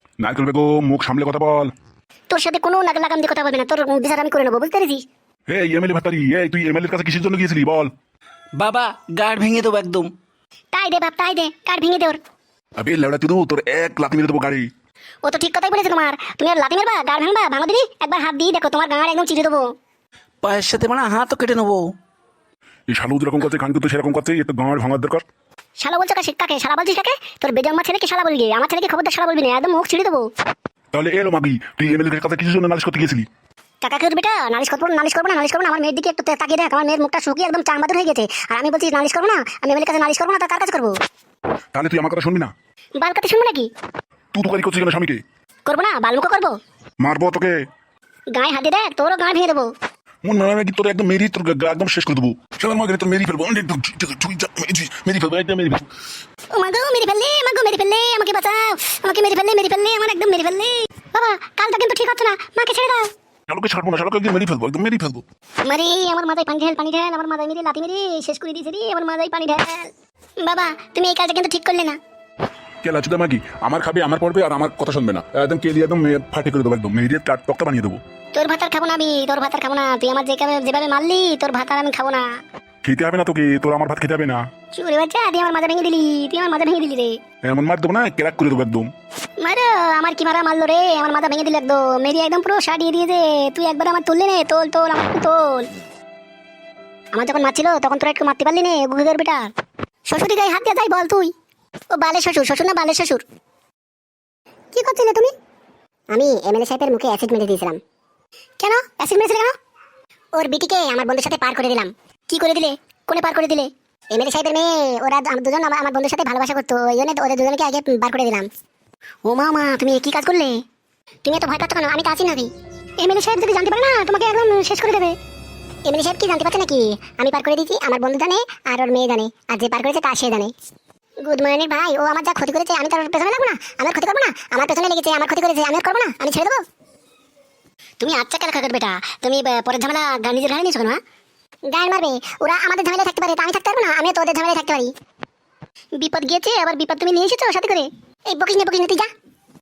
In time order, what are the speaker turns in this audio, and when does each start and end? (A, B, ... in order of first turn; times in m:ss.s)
0:00.2-0:01.7 A
0:02.3-0:05.1 B
0:05.5-0:07.9 A
0:08.6-0:10.1 C
0:10.7-0:12.2 B
0:12.8-0:14.7 A
0:15.2-0:19.7 B
0:20.4-0:22.0 C
0:22.9-0:25.3 A
0:25.8-0:30.3 B
0:30.9-0:33.3 A
0:33.8-0:41.0 B
0:41.7-0:42.5 A
0:43.0-0:43.7 B
0:44.3-0:45.2 A
0:45.7-0:46.6 B
0:47.0-0:47.6 A
0:48.3-0:49.7 B
0:50.2-0:55.9 A
0:56.6-1:03.1 B
1:03.5-1:05.2 A
1:05.6-1:12.0 B
1:12.8-1:18.0 A
1:18.3-1:22.3 B
1:22.8-1:24.4 A
1:24.7-1:27.2 B
1:27.4-1:28.9 A
1:29.4-1:35.7 B
1:37.1-1:39.5 B
1:40.1-1:41.3 B
1:41.9-1:43.2 B
1:44.8-1:45.3 B
1:46.1-1:47.8 B
1:48.6-1:49.6 B
1:50.4-1:58.5 B
1:59.3-2:00.6 B
2:01.2-2:05.2 B
2:05.9-2:10.5 B
2:11.2-2:16.6 B
2:18.0-2:21.0 B
2:21.7-2:24.9 B
2:26.0-2:29.1 B